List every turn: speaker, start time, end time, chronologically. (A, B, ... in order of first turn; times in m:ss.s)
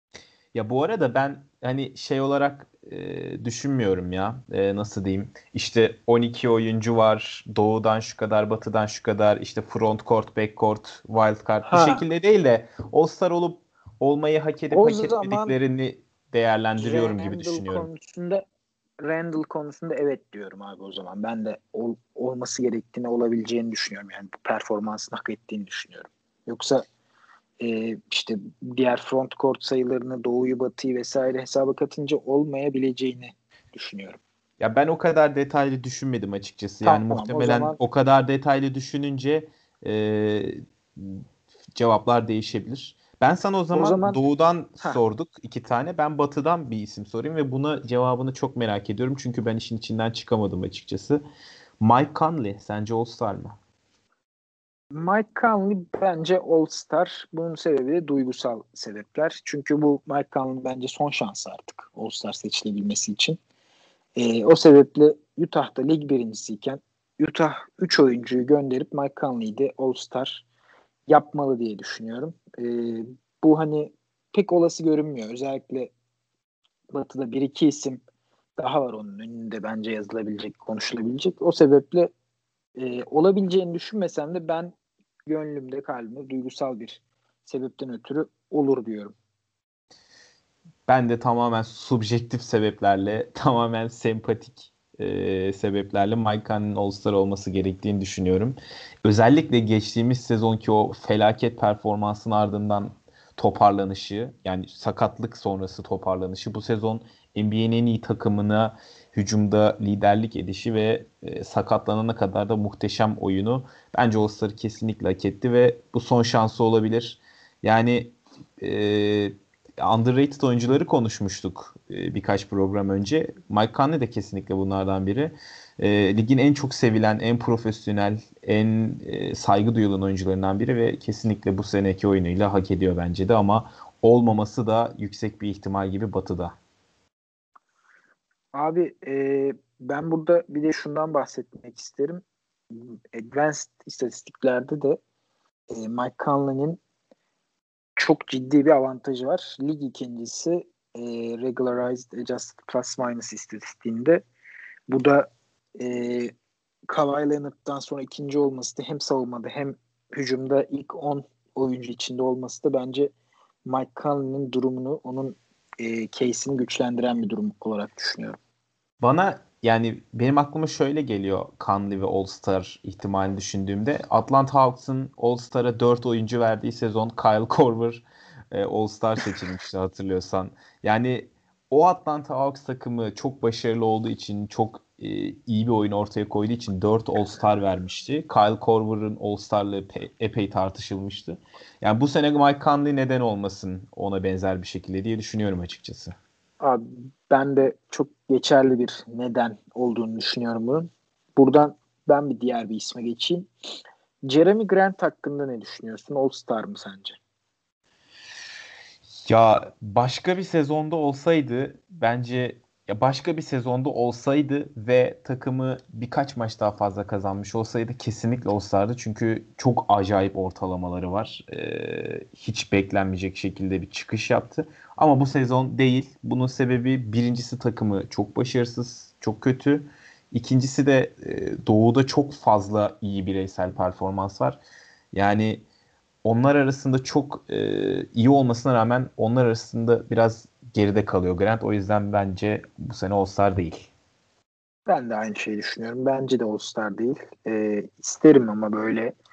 0:00.5-0:17.9 A
0:11.6-0:12.0 B
0:14.7-0:15.6 B
0:16.8-0:18.4 B
0:19.0-0:26.8 B
0:27.6-0:34.2 B
0:34.6-0:41.2 A
0:36.8-0:37.8 B
0:41.8-0:51.2 A
0:43.7-0:44.2 B
0:51.8-0:53.6 A
0:54.9-1:03.4 B
1:04.2-1:10.4 B
1:11.1-1:15.9 B
1:16.9-1:18.0 B
1:18.6-1:22.1 B
1:22.8-1:24.8 B
1:25.3-1:29.1 B
1:30.9-2:16.6 A
2:18.5-2:25.0 B
2:25.7-2:26.8 B
2:28.0-2:34.2 B
2:34.9-2:36.3 B
2:36.9-2:43.1 B
2:43.6-2:48.4 B
2:49.0-3:16.2 A
3:16.6-3:23.5 B
3:24.2-3:27.2 B
3:29.3-3:54.6 A
3:55.1-3:55.6 A
3:56.2-4:03.9 A
4:04.9-4:09.1 B